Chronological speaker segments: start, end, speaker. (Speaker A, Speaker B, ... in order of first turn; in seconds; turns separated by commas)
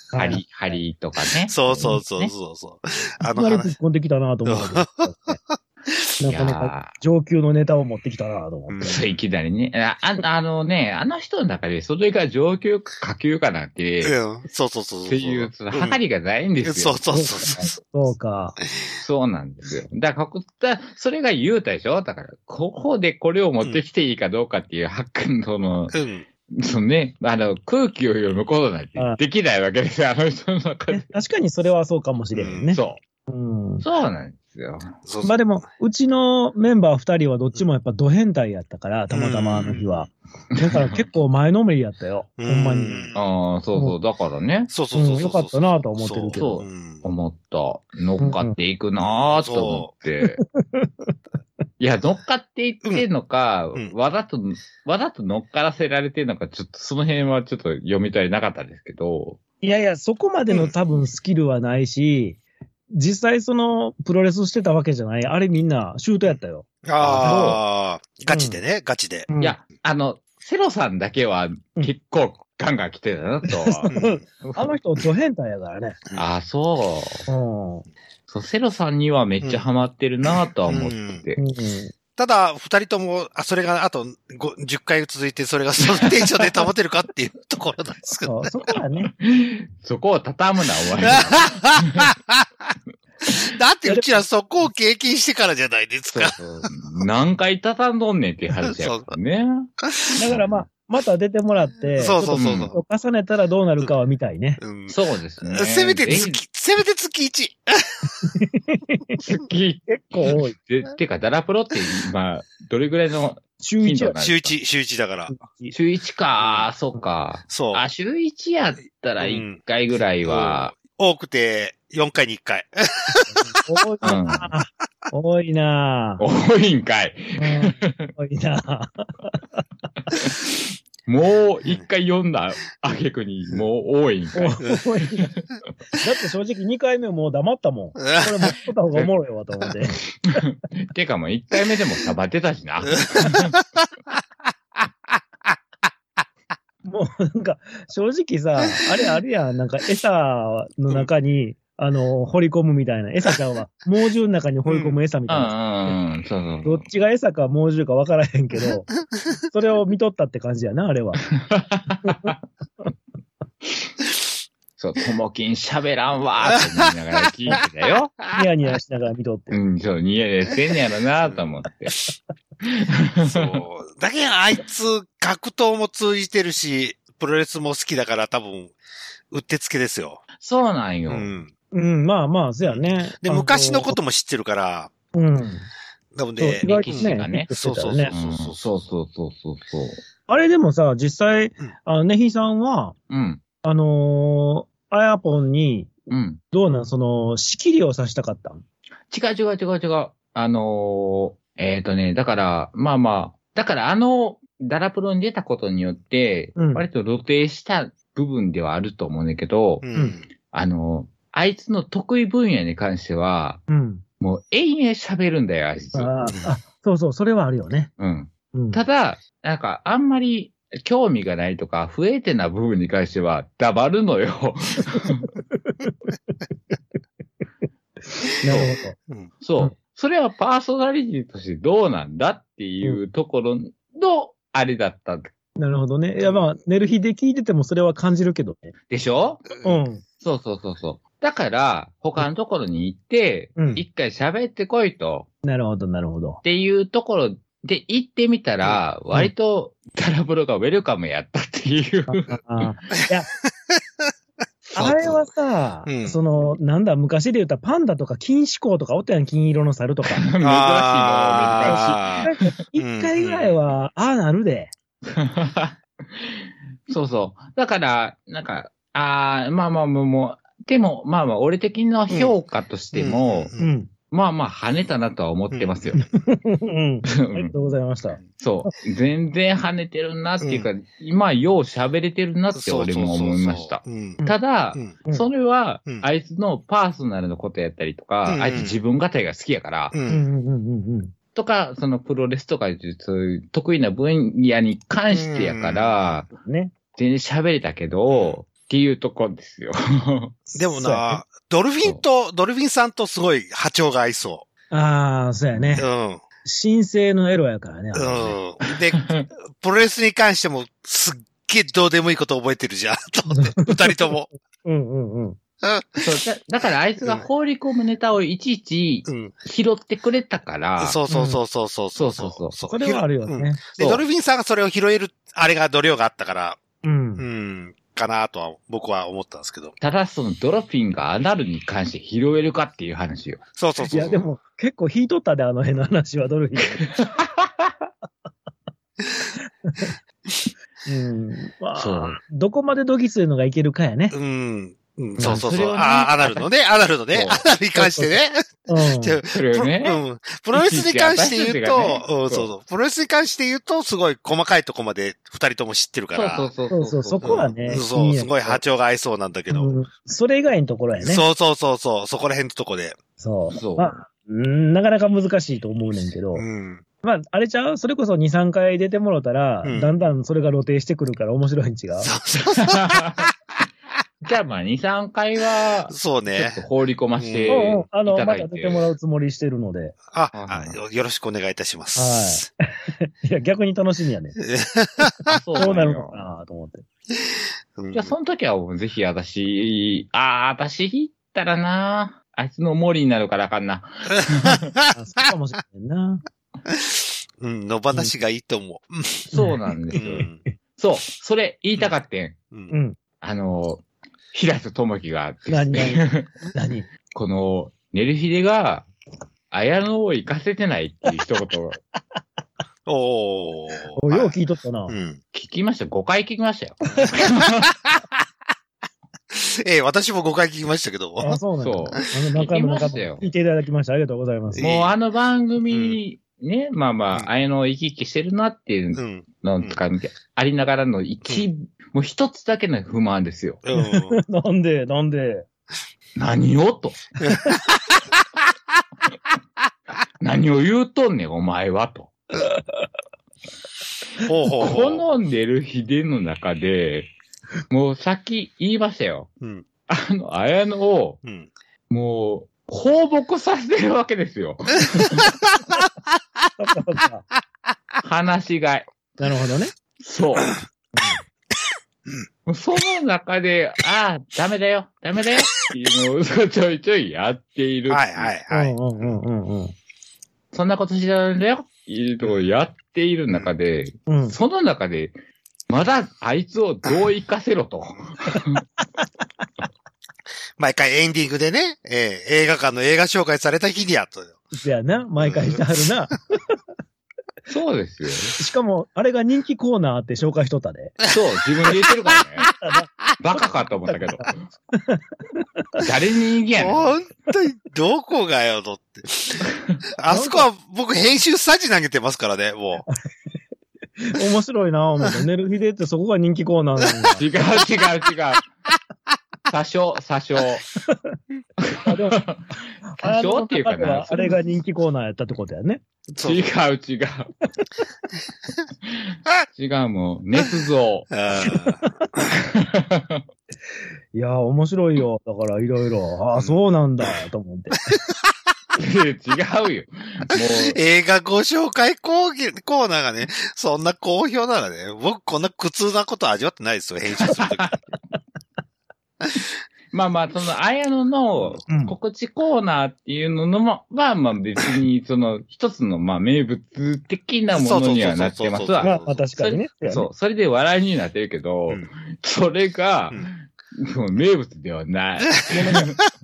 Speaker A: 0.1-0.4, Speaker B: 0.1-2.3, Speaker C: 1.5-3.7, Speaker A: 3.2-5.4, Speaker C: 4.5-6.0, Speaker A: 6.2-8.8, Speaker B: 6.3-6.9, Speaker C: 8.7-9.1, Speaker B: 8.8-14.2, Speaker C: 14.0-16.0, Speaker B: 15.1-17.1, Speaker C: 16.6-17.7, Speaker A: 17.1-18.6, Speaker B: 19.0-25.9, Speaker C: 25.9-26.2, Speaker B: 26.5-31.1, Speaker A: 30.9-33.8, Speaker C: 32.3-32.8, Speaker B: 32.7-33.0, Speaker B: 33.8-35.0, Speaker C: 35.0-35.5, Speaker A: 35.2-43.1, Speaker C: 39.1-40.1, Speaker B: 40.5-41.0, Speaker C: 42.4-43.2, Speaker B: 43.1-44.7, Speaker C: 44.7-47.0, Speaker A: 44.9-46.6, Speaker B: 46.4-50.4, Speaker A: 48.2-48.5, Speaker C: 49.0-49.9, Speaker A: 50.6-51.1, Speaker B: 51.8-59.4, Speaker A: 59.6-62.4, Speaker A: 62.9-66.7, Speaker C: 66.8-69.3, Speaker B: 67.0-67.6, Speaker A: 67.2-67.5, Speaker A: 68.3-68.6, Speaker A: 69.3-69.6, Speaker B: 69.4-74.8, Speaker A: 73.4-76.0, Speaker C: 73.9-74.2, Speaker B: 76.2-77.2, Speaker A: 77.3-77.8, Speaker B: 78.3-81.4, Speaker C: 79.4-79.7, Speaker C: 80.7-81.2, Speaker A: 81.4-81.9, Speaker C: 82.2-88.7, Speaker A: 88.2-89.1, Speaker B: 89.1-92.1, Speaker C: 91.0-92.5, Speaker C: 93.3-96.3, Speaker A: 93.8-94.7, Speaker B: 96.1-99.7, Speaker C: 98.7-99.1, Speaker C: 99.9-100.2, Speaker A: 100.2-104.6, Speaker B: 100.2-100.6, Speaker C: 102.0-102.8, Speaker B: 102.3-102.7, Speaker C: 104.6-108.3, Speaker B: 104.9-106.4, Speaker A: 108.2-109.2, Speaker B: 109.2-114.5, Speaker A: 109.9-110.5, Speaker A: 113.6-114.2, Speaker C: 114.2-115.3, Speaker A: 115.3-115.8, Speaker B: 115.7-120.7, Speaker C: 117.5-117.8, Speaker C: 119.2-119.6, Speaker C: 120.2-123.6, Speaker A: 123.1-126.2, Speaker B: 124.0-124.5, Speaker B: 126.2-128.1, Speaker A: 127.4-129.6, Speaker B: 131.1-134.6, Speaker A: 134.3-135.3, Speaker A: 135.9-140.0, Speaker C: 138.0-138.5, Speaker B: 140.2-143.6, Speaker A: 146.8-156.0, Speaker C: 154.7-155.0, Speaker B: 155.3-156.8, Speaker A: 156.6-158.9, Speaker A: 159.5-161.2, Speaker B: 161.3-162.3, Speaker A: 162.0-162.3, Speaker B: 164.8-168.1, Speaker C: 166.5-166.9, Speaker A: 168.3-169.6, Speaker B: 169.5-171.9, Speaker C: 171.2-171.5, Speaker B: 172.6-173.6, Speaker C: 173.2-178.8, Speaker C: 179.3-180.2, Speaker B: 180.4-181.3, Speaker C: 181.1-181.5, Speaker A: 181.7-184.0, Speaker C: 182.6-184.9, Speaker A: 185.1-185.7, Speaker C: 186.1-188.7, Speaker A: 186.4-188.1, Speaker B: 186.6-187.5, Speaker B: 188.1-190.0, Speaker A: 190.3-192.9, Speaker B: 193.1-193.4, Speaker A: 193.6-198.6, Speaker B: 196.1-196.4, Speaker B: 199.1-209.8, Speaker A: 206.6-206.8, Speaker C: 209.8-210.2, Speaker B: 210.5-213.6, Speaker A: 213.7-214.0, Speaker B: 214.2-216.2, Speaker A: 215.9-217.9, Speaker B: 218.0-225.3, Speaker A: 218.5-218.8, Speaker A: 225.1-225.9, Speaker A: 228.4-228.9, Speaker B: 228.5-228.7, Speaker C: 229.0-229.3, Speaker B: 229.4-235.3, Speaker A: 235.6-238.7, Speaker B: 238.9-239.5, Speaker C: 239.5-239.8, Speaker A: 239.6-240.0, Speaker B: 240.2-245.3, Speaker A: 243.6-243.8, Speaker A: 245.4-246.4, Speaker B: 246.4-252.7, Speaker A: 252.1-253.3, Speaker C: 254.7-255.2, Speaker A: 254.7-260.3, Speaker C: 255.8-256.2, Speaker B: 260.1-262.5, Speaker C: 260.4-263.5, Speaker A: 261.6-264.7, Speaker B: 265.0-273.5, Speaker C: 272.1-272.3, Speaker C: 272.9-273.7, Speaker A: 273.6-273.9, Speaker B: 274.1-276.0, Speaker C: 275.5-276.1, Speaker A: 276.0-278.7, Speaker B: 277.1-277.5, Speaker B: 278.4-289.9, Speaker C: 280.4-280.7, Speaker C: 282.5-284.2, Speaker C: 288.2-288.8, Speaker C: 289.9-290.2, Speaker A: 290.1-291.1, Speaker B: 291.3-296.3, Speaker C: 295.1-296.0, Speaker A: 296.3-296.7, Speaker B: 296.9-300.4, Speaker C: 298.1-298.4, Speaker A: 300.5-301.2, Speaker C: 300.6-304.4, Speaker A: 304.7-305.9, Speaker B: 305.5-305.8, Speaker C: 305.8-306.2, Speaker A: 306.4-308.4, Speaker C: 307.9-314.3, Speaker B: 308.9-309.3, Speaker A: 313.3-314.1, Speaker A: 314.6-315.4, Speaker C: 315.6-316.1, Speaker B: 316.0-321.0, Speaker C: 319.1-319.4, Speaker C: 320.8-326.6, Speaker A: 321.1-321.4, Speaker B: 321.9-322.5, Speaker A: 322.7-323.6, Speaker A: 326.8-327.2, Speaker C: 327.2-329.7, Speaker B: 329.8-333.4, Speaker C: 333.6-334.3, Speaker A: 333.9-336.8, Speaker B: 336.8-337.9, Speaker A: 339.6-339.9, Speaker A: 340.9-344.1, Speaker B: 341.7-342.2, Speaker C: 344.1-356.5, Speaker A: 345.2-345.4, Speaker B: 345.2-346.4, Speaker A: 347.7-349.2, Speaker B: 349.3-350.0, Speaker B: 350.5-352.5, Speaker B: 356.1-357.6, Speaker A: 356.7-358.6, Speaker C: 357.2-359.7, Speaker A: 359.5-361.2, Speaker C: 361.0-363.0, Speaker A: 363.2-366.4, Speaker B: 363.5-363.9, Speaker C: 366.3-366.8, Speaker A: 367.0-372.1, Speaker C: 369.6-369.9, Speaker C: 372.0-373.3, Speaker B: 372.5-373.3, Speaker B: 374.2-378.9, Speaker C: 375.9-376.6, Speaker C: 377.2-377.7, Speaker A: 377.5-380.0, Speaker C: 380.1-382.4, Speaker B: 380.3-380.8, Speaker A: 381.9-384.4, Speaker C: 384.4-385.8, Speaker A: 385.0-386.9, Speaker B: 385.3-386.2, Speaker C: 387.8-388.1, Speaker B: 387.9-394.7, Speaker C: 394.1-394.9, Speaker A: 394.9-396.2, Speaker C: 396.7-399.3, Speaker A: 399.3-399.6, Speaker B: 399.3-402.4, Speaker C: 399.9-400.4, Speaker A: 402.7-403.0, Speaker B: 403.2-406.4, Speaker A: 405.5-406.9, Speaker B: 407.1-408.9, Speaker B: 409.5-411.8, Speaker C: 412.9-414.4, Speaker A: 414.0-414.9, Speaker C: 414.9-415.2, Speaker B: 415.3-417.6, Speaker C: 417.4-418.0, Speaker C: 419.3-421.4, Speaker A: 421.2-424.7, Speaker B: 421.6-423.2, Speaker C: 424.6-424.9, Speaker B: 424.6-433.6, Speaker C: 425.7-426.0, Speaker C: 428.9-429.8, Speaker C: 433.6-434.2, Speaker A: 433.7-435.5, Speaker B: 436.1-437.1, Speaker C: 437.2-437.5, Speaker A: 437.3-437.5, Speaker B: 440.2-442.1, Speaker A: 442.4-442.9, Speaker C: 444.2-445.1, Speaker B: 444.6-447.1, Speaker B: 447.7-449.3, Speaker B: 449.9-451.2, Speaker C: 451.2-451.5, Speaker B: 451.9-455.3, Speaker A: 456.6-457.2, Speaker B: 458.0-458.9, Speaker A: 459.2-459.7, Speaker B: 460.0-460.5, Speaker B: 462.4-468.3, Speaker C: 467.9-469.1, Speaker A: 468.5-469.7, Speaker B: 470.5-475.1, Speaker A: 474.1-474.4, Speaker B: 475.7-478.6, Speaker C: 480.6-484.4, Speaker A: 484.5-486.5, Speaker C: 485.2-485.7, Speaker B: 487.5-488.4, Speaker A: 488.4-491.0, Speaker B: 491.1-492.5, Speaker A: 492.6-492.9, Speaker B: 493.2-494.5, Speaker A: 493.9-495.8, Speaker B: 495.8-496.9, Speaker C: 496.6-502.8, Speaker B: 499.5-499.8, Speaker A: 500.1-500.5, Speaker A: 504.0-507.2, Speaker B: 507.1-508.4, Speaker B: 509.5-510.6, Speaker B: 511.6-514.4, Speaker A: 511.8-512.2, Speaker A: 512.8-515.8, Speaker C: 516.1-516.5, Speaker B: 516.2-517.3, Speaker B: 518.8-521.5, Speaker C: 521.1-522.2, Speaker A: 521.4-522.1, Speaker B: 522.3-523.2, Speaker A: 524.1-528.0, Speaker B: 528.7-530.8, Speaker C: 530.3-537.8, Speaker B: 537.2-537.7, Speaker B: 539.9-556.0, Speaker A: 541.7-541.9, Speaker C: 547.5-549.2, Speaker A: 548.8-550.1, Speaker A: 555.5-555.9